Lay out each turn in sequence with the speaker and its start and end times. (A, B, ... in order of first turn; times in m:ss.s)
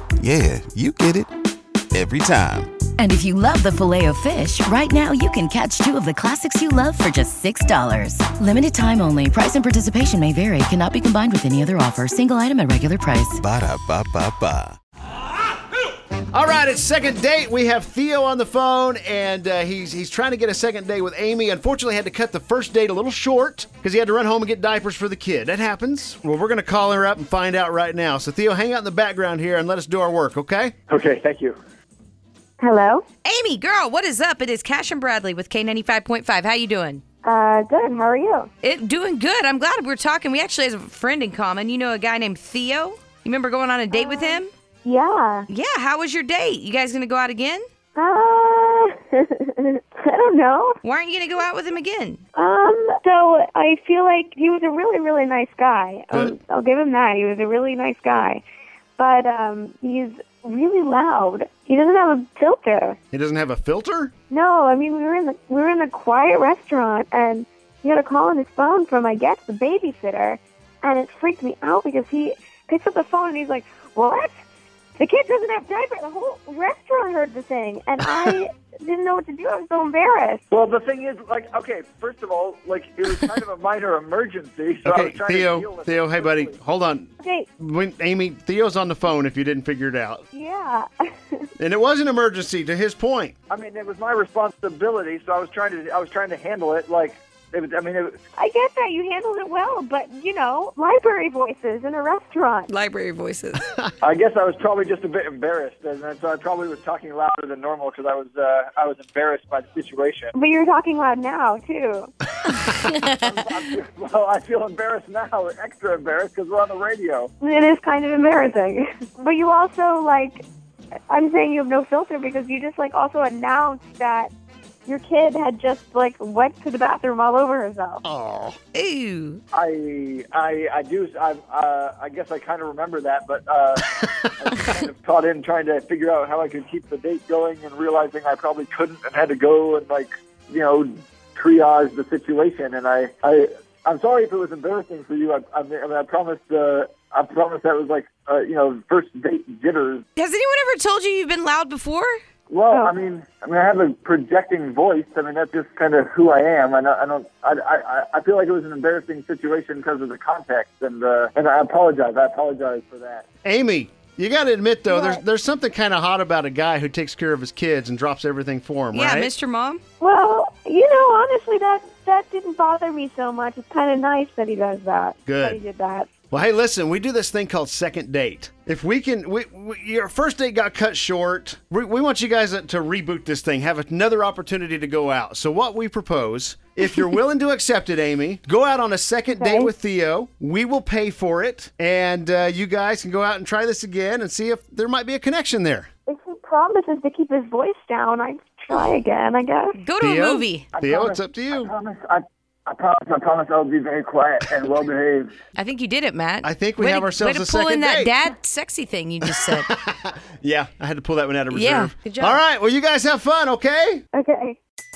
0:00.2-0:01.3 A
0:01.9-0:02.8 A
0:03.0-0:13.4 B
0:13.4-0:14.8 A
0:16.3-0:30.7 C
0:30.9-0:31.6 D
0:32.6-0:33.0 E
0:33.2-0:37.0 F
0:37.2-0:38.5 E
0:38.6-0:44.5 F
0:43.9-0:45.5 E
0:45.5-0:47.6 F
0:48.0-0:50.8 E
0:50.8-0:52.2 F
0:52.4-0:58.4 E
0:59.0-1:03.0 E
1:03.1-1:04.1 C
1:04.3-1:14.3 E
1:15.0-1:20.4 E
1:20.5-1:26.5 D
1:24.8-1:30.2 C
1:27.2-1:27.5 E
1:30.3-1:31.5 E
1:31.6-1:33.3 C
1:33.5-1:38.2 D
1:38.4-1:42.7 E
1:42.7-1:43.7 F
1:44.0-1:50.3 D
1:50.3-1:52.1 E
1:52.6-1:53.1 F
1:53.0-1:57.3 D
1:57.4-2:00.4 E
2:01.1-2:04.3 E
2:04.9-2:08.0 E
2:08.0-2:08.6 C
2:08.7-2:09.4 F
2:09.5-2:30.0 D
2:14.0-2:14.7 C
2:30.2-2:32.2 F
2:32.5-2:43.2 D
2:43.4-2:49.3 C
2:44.9-2:45.2 E
2:48.9-2:49.8 F
2:50.0-2:56.1 E
2:55.3-2:55.6 C
2:56.3-3:15.9 C
3:09.3-3:09.7 E
3:16.1-3:19.8 E
3:19.8-3:20.7 F
3:20.0-3:21.7 C
3:20.7-3:25.3 D
3:25.6-3:29.7 F
3:26.4-3:28.2 C
3:29.5-3:34.0 C
3:31.5-3:32.4 F
3:34.1-3:34.6 E